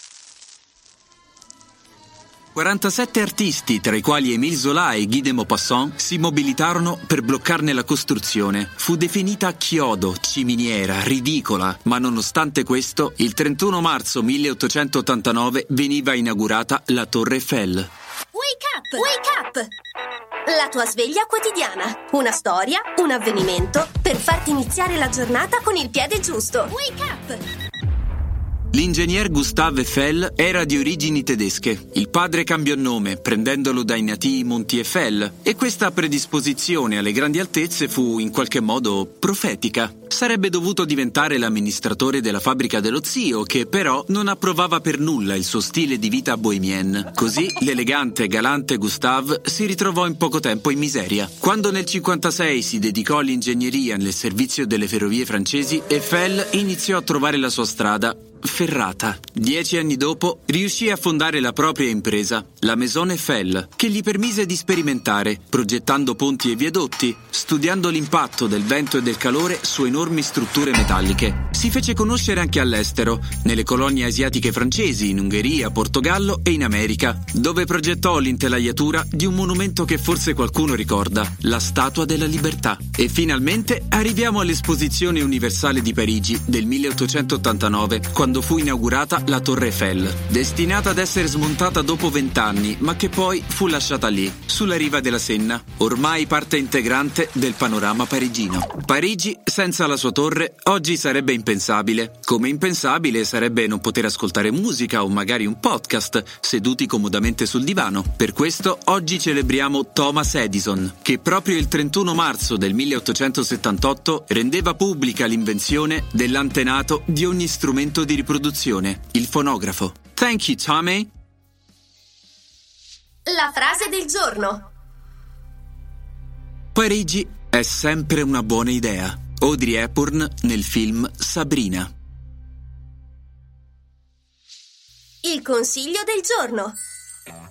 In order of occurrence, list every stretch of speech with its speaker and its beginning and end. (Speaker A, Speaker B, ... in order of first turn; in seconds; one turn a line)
Speaker A: 2.5-17.9
Speaker B: 18.3-19.7
Speaker B: 20.4-27.4
Speaker A: 28.7-121.1
Speaker B: 123.2-124.7
Speaker A: 126.8-131.9
Speaker B: 135.2-136.8